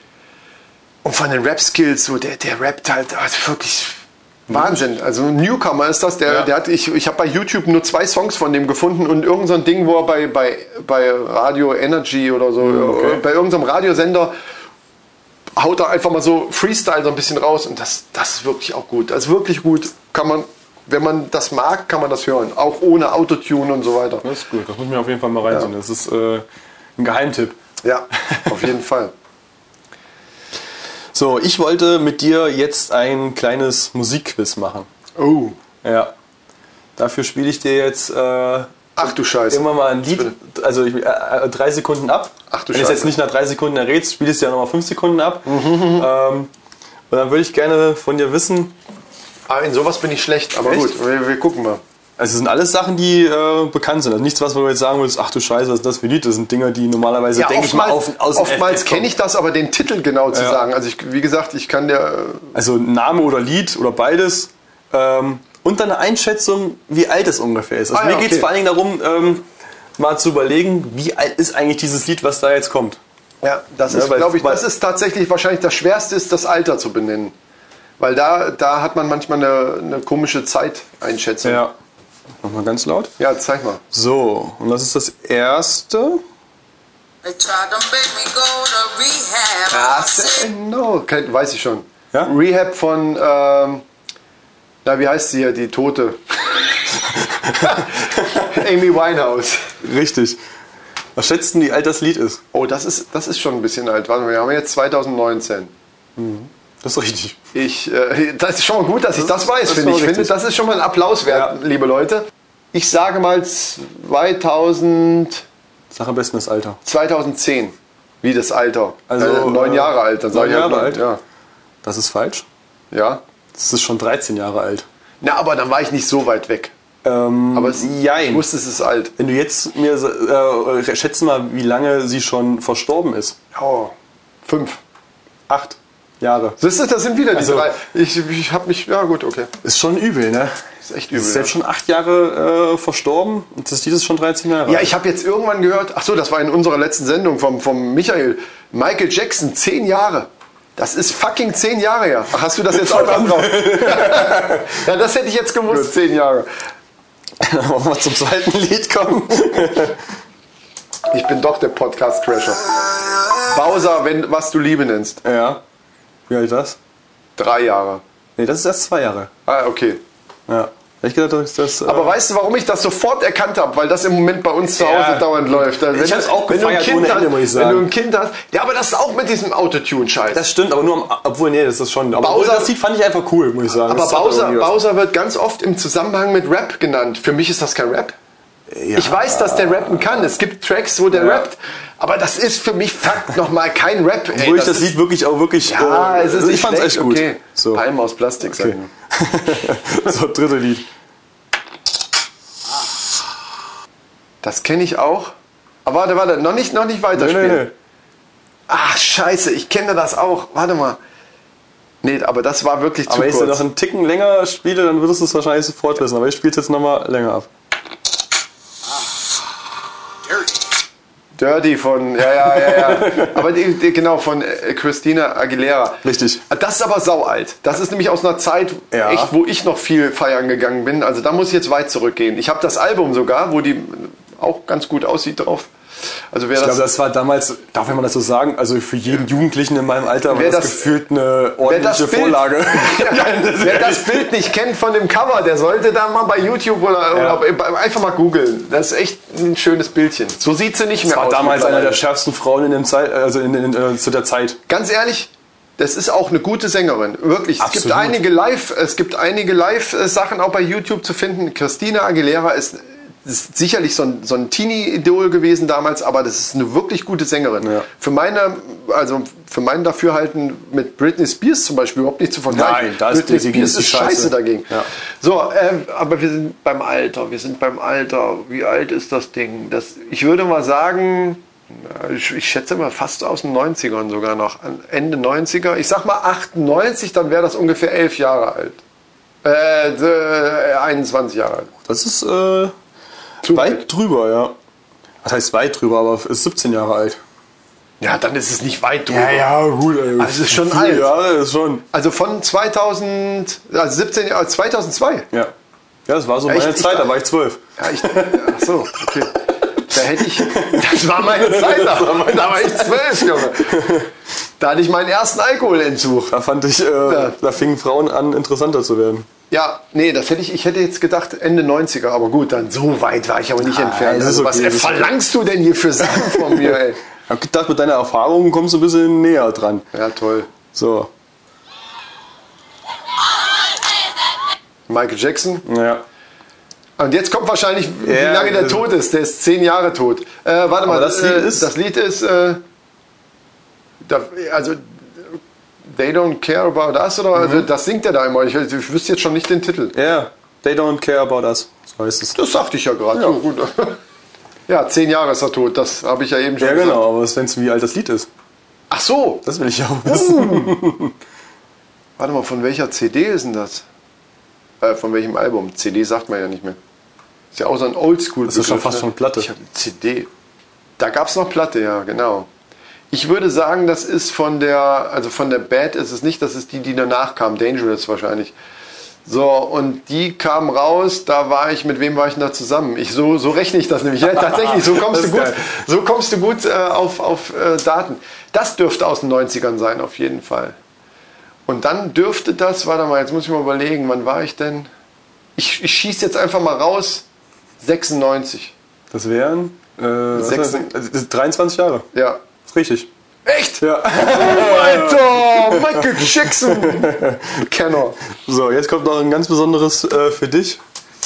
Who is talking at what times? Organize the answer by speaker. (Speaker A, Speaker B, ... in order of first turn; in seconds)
Speaker A: 1.0-14.3, 15.6-24.2, 27.8-29.1, 35.1-35.6, 39.0-40.3, 42.5-43.1, 45.5-46.1, 49.5-51.8, 57.3-62.5, 67.9-68.5, 73.4-77.3, 78.0-81.6, 83.2-83.8, 89.7-93.8, 94.8-96.2, 97.4-99.6, 102.5-105.7, 107.5-115.4, 116.8-121.2, 122.9-123.2, 125.2-126.7, 127.5-129.1, 133.5-133.9, 134.4-134.8, 136.6-139.5, 140.8-141.5, 144.7-156.5, 161.1-162.7, 163.4-165.2, 167.4-168.0, 169.4-170.0, 171.8-180.4, 182.2-182.7, 183.8-188.2, 188.9-194.9, 195.7-198.8, 204.4-205.3, 205.8-207.7, 208.7-211.0, 212.0-213.6, 221.3-235.7, 236.3-236.9, 240.3-241.0, 241.6-252.0, 254.7-288.8, 289.4-291.7, 293.4-293.8, 298.0-299.5, 300.2-301.1, 301.9-305.3, 306.4-307.1, 307.8-314.0, 314.6-316.4, 317.0-317.4, 319.5-327.0, 329.9-330.5, 334.9-335.6, 337.0-342.6, 344.0-344.8, 345.9-349.9, 352.3-354.0, 354.7-357.0, 358.9-359.4, 360.0-360.8, 362.2-363.9, 364.8-366.8, 367.5-370.3, 371.0-372.5, 373.1-378.6, 379.2-390.8, 391.6-394.9, 395.6-397.2, 397.8-398.7, 400.3-400.9, 402.1-402.4, 403.4-408.2
Speaker B: 12.6-13.2, 24.2-26.4, 27.0-27.6, 28.1-28.6, 31.1-34.9, 35.8-36.1, 37.0-46.5, 47.1-48.7, 50.6-50.9, 52.2-59.1, 60.3-60.6, 62.5-69.4, 70.0-73.0, 73.9-74.6, 81.4-81.7, 82.4-83.1, 83.9-86.2, 97.0-98.5, 99.8-100.4, 101.2-102.4, 106.2-107.4, 109.1-110.3, 111.3-111.5, 115.9-116.8, 119.1-121.0, 121.8-122.5, 123.5-124.9, 127.0-128.4, 129.2-133.4, 135.5-136.6, 137.3-137.7, 139.6-140.6, 141.1-144.9, 152.7-154.8, 157.4-160.0, 165.2-165.6, 166.3-166.8, 168.4-169.3, 170.5-172.2, 174.8-177.9, 180.3-184.8, 188.7-190.3, 191.1-191.4, 194.3-197.8, 198.4-200.9, 207.1-207.7, 213.1-217.5, 222.4-223.4, 226.0-226.4, 228.9-229.3, 236.6-244.3, 247.1-247.4, 251.1-254.6, 257.6-258.2, 267.6-267.9, 272.5-274.9, 291.9-292.7, 293.4-294.5, 295.2-297.2, 299.1-301.8, 306.1-308.6, 310.4-314.1, 316.3-319.3, 323.6-325.1, 326.1-329.9, 330.7-331.1, 335.6-336.0, 338.0-338.9, 340.8-341.7, 347.3-347.6, 349.9-352.4, 356.6-358.3, 359.4-361.1, 368.5-369.5, 384.4-385.6, 399.1-402.1, 402.6-403.1, 403.8-407.6, 408.3-410.8
Speaker C: 87.2-90.5